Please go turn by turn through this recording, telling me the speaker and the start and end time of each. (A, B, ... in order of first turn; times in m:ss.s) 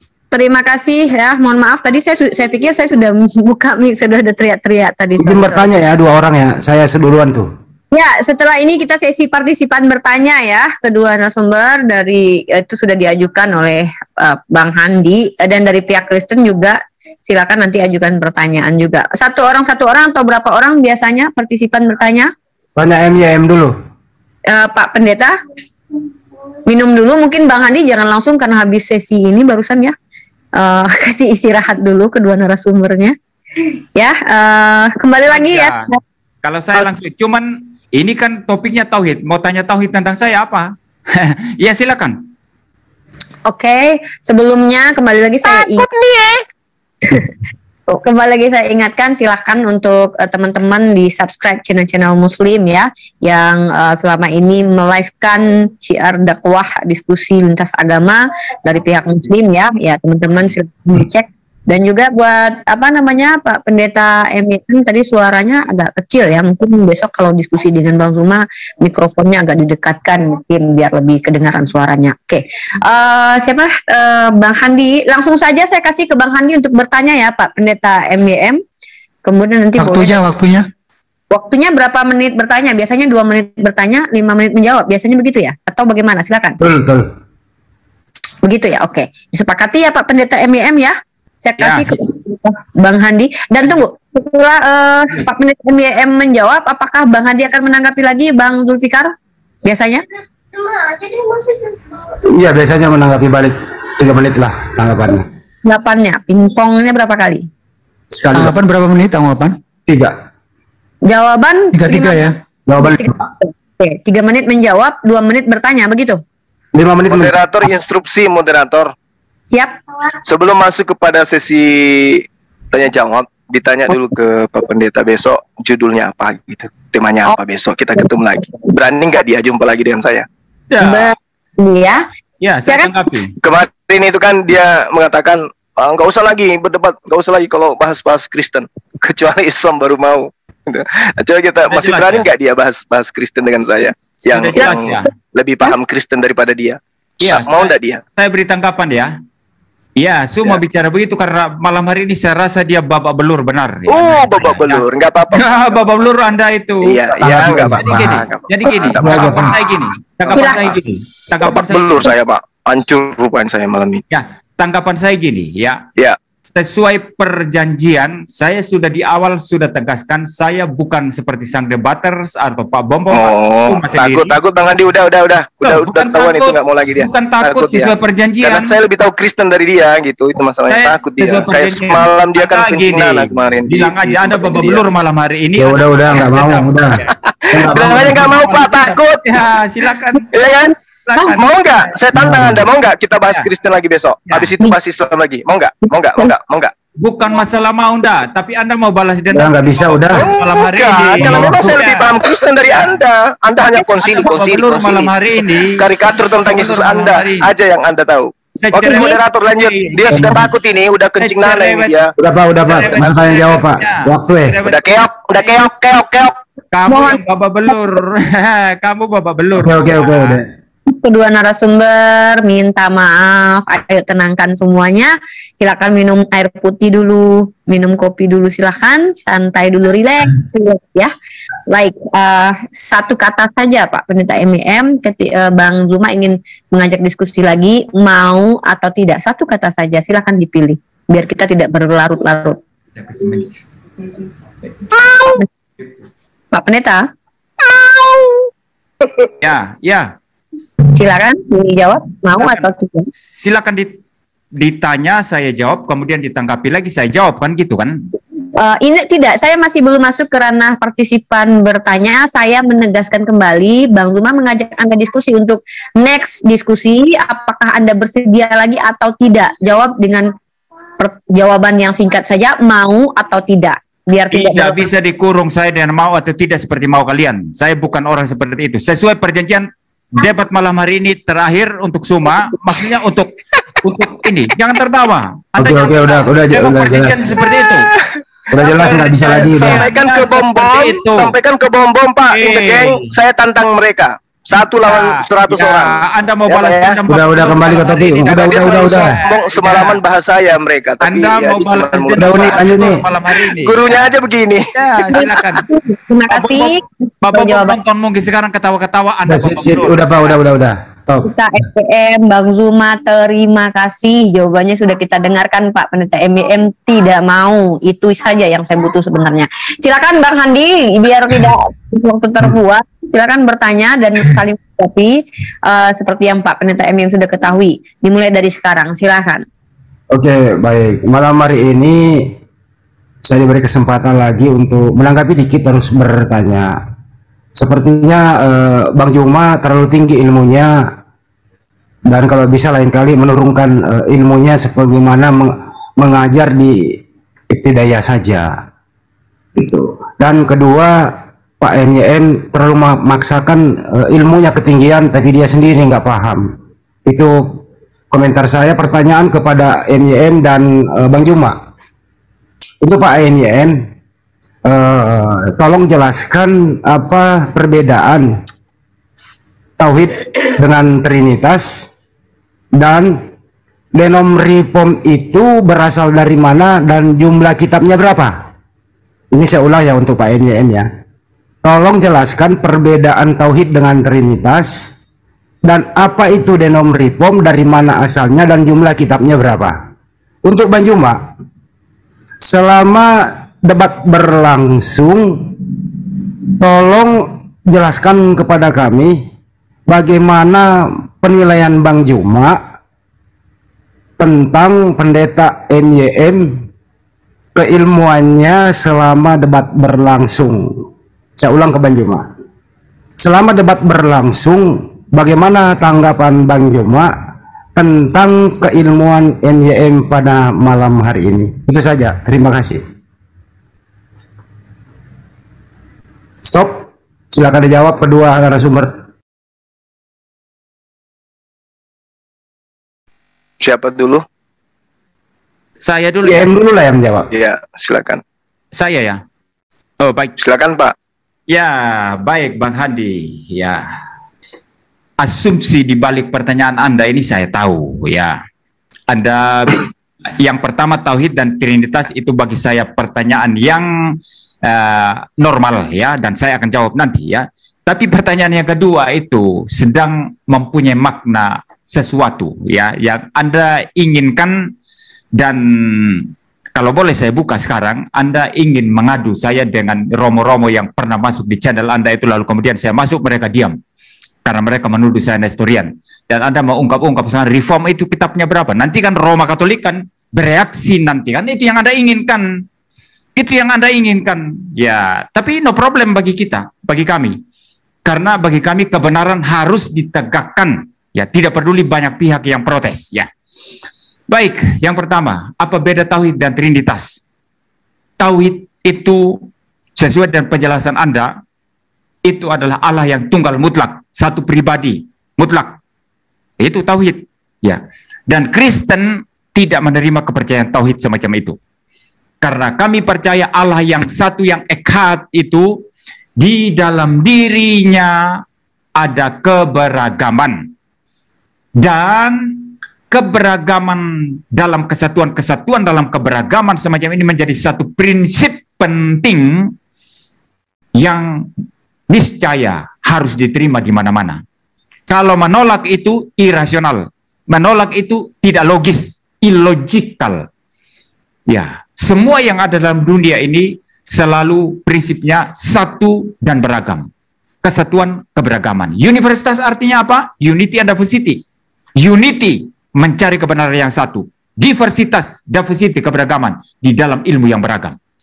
0:00.3-0:05.7 A
0:05.2-0:07.5 B
0:07.9-0:22.3 A
0:22.8-0:23.7 B
0:24.5-0:25.3 A
0:26.7-0:29.9 A
0:30.6-0:33.2 A
0:34.0-0:36.0 A
0:35.3-0:35.9 C
0:36.4-0:42.2 C
0:43.5-0:45.9 A
0:45.5-0:46.4 D
0:47.0-0:47.3 A
0:47.9-1:18.6 A
1:19.2-1:20.2 A
1:19.8-1:20.7 E
1:21.3-1:26.6 A
1:26.6-1:27.1 B
1:28.4-1:39.1 A
1:31.6-1:32.0 C
1:39.6-1:40.0 A
1:40.7-1:41.7 A
1:42.3-1:45.3 B
1:45.7-1:47.5 A
1:48.1-1:48.6 B
1:48.3-1:49.6 E
1:49.9-1:50.1 B
1:51.1-1:56.2 A
1:51.7-1:52.4 E
1:52.7-1:53.2 B
1:56.8-1:57.4 B
1:57.1-1:58.9 D
1:59.5-1:59.8 A
2:00.3-2:10.3 D
2:10.7-2:11.1 C
2:10.8-2:12.0 A
2:12.4-2:13.3 C
2:13.4-2:28.0 D
2:21.7-2:22.3 C
2:24.2-2:25.1 C
2:27.2-2:27.6 C
2:28.2-2:29.2 C
2:30.0-2:42.1 C
2:33.9-2:35.5 D
2:36.8-2:39.6 D
2:37.2-2:38.2 B
2:39.0-2:39.6 B
2:40.2-2:40.6 D
2:40.3-2:40.8 A
2:41.4-2:44.0 D
2:44.1-2:45.8 C
2:46.5-2:54.3 C
2:53.1-2:57.9 D
2:55.6-2:58.7 C
2:58.4-3:04.8 D
3:00.7-3:07.0 C
3:05.6-3:08.4 B
3:07.3-3:09.4 D
3:07.7-3:10.3 C
3:10.3-3:10.7 D
3:11.1-3:11.4 C
3:11.3-3:16.7 D
3:12.2-3:12.7 B
3:17.0-3:22.2 C
3:19.3-3:20.3 B
3:20.2-3:25.1 D
3:21.2-3:21.7 B
3:22.7-3:23.0 C
3:23.8-3:25.8 C
3:25.7-3:32.1 D
3:26.4-3:27.5 C
3:28.6-3:30.5 C
3:28.8-3:29.2 A
3:30.1-3:30.5 B
3:31.2-3:32.0 C
3:32.2-3:34.6 B
3:32.7-3:35.6 C
3:34.7-3:36.4 D
3:36.7-3:40.4 C
3:36.9-3:37.2 A
3:39.6-3:40.5 B
3:40.9-3:51.1 A
3:51.7-4:02.6 A
4:03.0-4:03.6 C
4:04.9-4:05.5 A
4:06.5-4:07.1 A
4:07.6-4:08.4 A
4:09.4-4:10.1 C
4:10.9-4:13.1 A
4:12.4-4:12.7 C
4:13.3-4:14.0 C
4:14.6-4:18.0 C
4:18.6-4:30.3 A
4:31.0-4:34.8 A
4:34.3-4:47.9 C
4:45.6-4:47.3 B
4:48.5-4:49.8 B
4:48.6-4:51.3 C
4:48.8-4:57.0 D
4:52.3-4:53.1 C
4:54.6-5:00.0 C
4:57.1-4:59.2 B
4:58.2-5:03.0 D
5:01.0-5:04.0 C
5:02.2-5:03.0 B
5:03.5-5:04.6 D
5:04.7-5:05.7 C
5:05.1-5:07.8 A
5:06.3-5:10.4 C
5:09.3-5:11.3 B
5:11.3-5:29.4 A
5:30.1-5:32.4 B
5:33.2-5:36.7 B
5:37.6-5:40.8 B
5:42.1-5:47.0 B
5:47.5-5:48.5 B
5:49.6-5:56.5 B
5:57.1-6:01.6 B
6:02.8-6:03.9 B
6:04.6-6:08.3 B
6:09.8-6:11.9 B
6:12.8-6:13.2 B
6:13.9-6:18.4 B
6:19.3-6:20.9 B
6:21.6-6:24.9 B
6:25.6-6:29.8 B
6:30.4-6:31.3 B
6:32.4-6:35.6 B
6:36.6-6:39.2 B
6:39.9-6:42.6 B
6:44.2-6:46.7 B
6:47.6-6:50.8 B
6:51.4-6:52.3 B
6:53.2-6:57.1 B
6:57.8-7:02.8 B
7:06.4-7:08.9 B
7:13.6-7:14.2 D
7:15.8-7:16.5 C
7:16.2-7:17.3 B
7:17.3-7:18.2 D
7:18.8-7:19.2 C
7:20.0-7:20.3 C
7:20.4-7:20.9 D
7:21.5-7:23.8 C
7:25.2-7:28.4 C
7:29.1-7:29.9 C
7:30.4-7:44.7 C
7:45.4-7:53.8 C
7:54.4-8:02.6 C
8:03.4-8:07.4 C
8:08.0-8:13.3 C
8:14.3-8:17.2 C
8:18.2-8:21.4 C
8:22.2-8:25.8 C
8:26.6-8:31.6 C
8:32.4-8:35.8 C
8:36.4-8:38.4 C
8:39.0-8:40.7 C
8:41.8-8:49.7 C
8:51.0-8:51.5 C
8:52.1-8:54.4 C
8:55.1-9:00.5 C
9:01.5-9:07.1 C
9:07.6-9:11.4 C
9:12.0-9:18.0 C